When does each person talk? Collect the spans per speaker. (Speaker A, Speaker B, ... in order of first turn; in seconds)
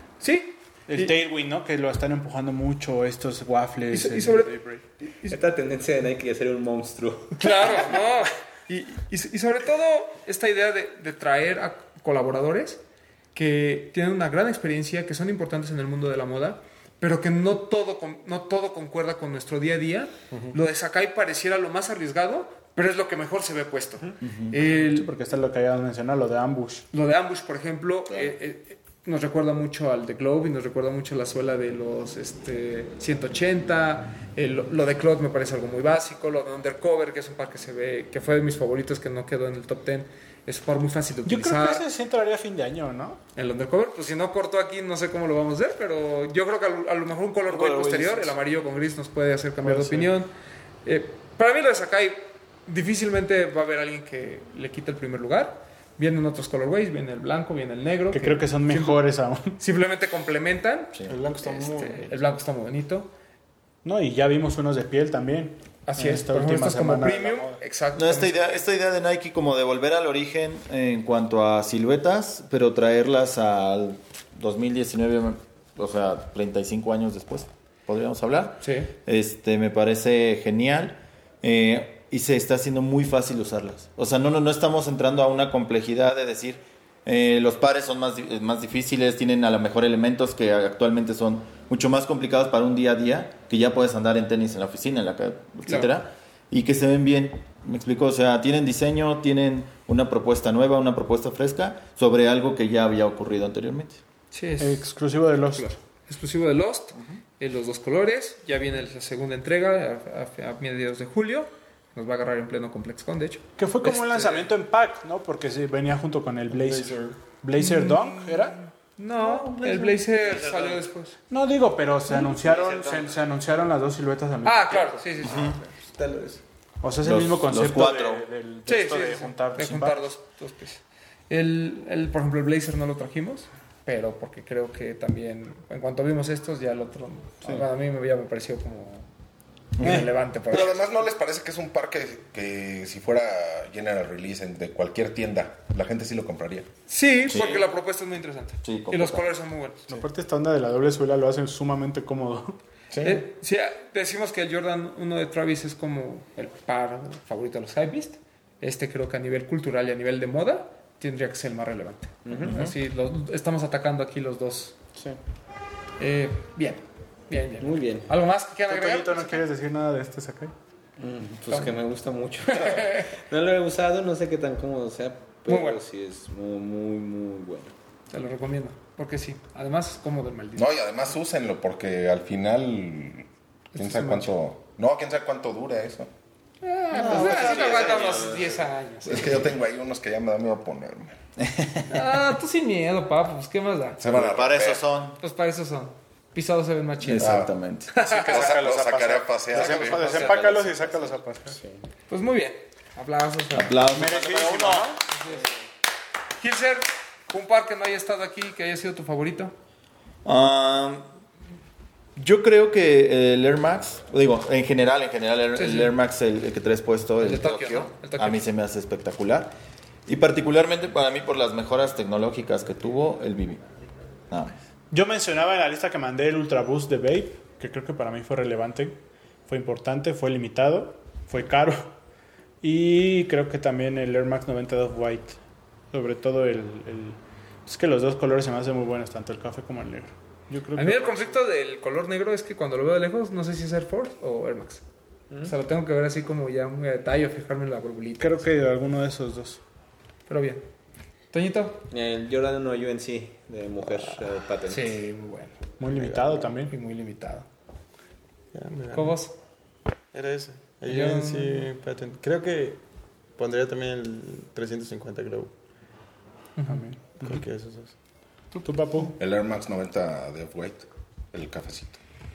Speaker A: 0.2-1.1, 3.9-4.6, 7.4-12.8, 13.3-25.1, 26.9-41.8, 43.3-50.3, 50.8-59.0, 59.6-63.1, 65.8-68.5, 78.6-78.9, 95.7-96.0, 104.3-105.0, 105.5-113.5, 117.6-121.2, 124.4-125.8, 128.7-139.1, 139.8-140.8, 146.9-149.9, 153.0-164.8, 166.0-169.4, 171.5-171.8, 172.5-173.1, 175.4-175.8, 178.1-180.7, 183.7-184.3, 186.6-189.5, 191.9-194.0, 195.2-198.5, 199.5-200.7, 202.1-203.8, 205.1-205.5, 206.4-209.5, 215.5-216.0, 217.2-218.5, 240.8-244.8, 245.4-248.4, 250.3-250.6, 251.3-251.8, 254.7-255.6, 256.6-257.4, 258.9-259.3, 260.9-261.7, 266.6-266.8, 268.5-269.1
Speaker B: 0.9-4.8, 24.6-26.9, 41.2-43.2, 49.6-50.1, 58.1-59.5, 63.8-67.6, 104.6-105.8, 113.6-118.6, 121.3-125.0, 126.8-130.1, 149.9-152.6, 168.7-170.5, 198.1-201.6, 203.8-205.0, 224.9-231.9, 232.6-235.4, 235.9-241.4, 248.2-249.6, 255.8-256.7, 266.6-267.4, 268.6-269.2
Speaker C: 5.2-7.9, 47.8-48.1, 120.2-120.8, 122.2-123.2, 162.2-162.5, 167.6-168.1, 171.0-177.7, 187.0-188.2, 200.0-200.3, 251.9-255.0
Speaker D: 24.2-24.6, 47.7-48.1, 60.9-61.2, 67.9-104.0, 125.2-125.6, 127.0-128.3, 139.8-140.1, 147.3-147.7, 148.6-149.3, 162.4-162.7, 186.9-188.4, 194.1-195.2, 197.0-197.9, 203.5-204.9, 210.2-211.1, 212.2-219.5, 220.1-223.6, 224.3-224.6
Speaker E: 61.0-62.2, 125.9-126.4, 255.9-256.5, 258.5-259.2, 260.1-262.8, 263.4-265.5, 267.2-267.9
Speaker F: 140.5-146.7, 152.9-153.2, 180.6-186.1, 189.0-191.2, 194.0-194.8, 197.2-200.2, 269.2-272.0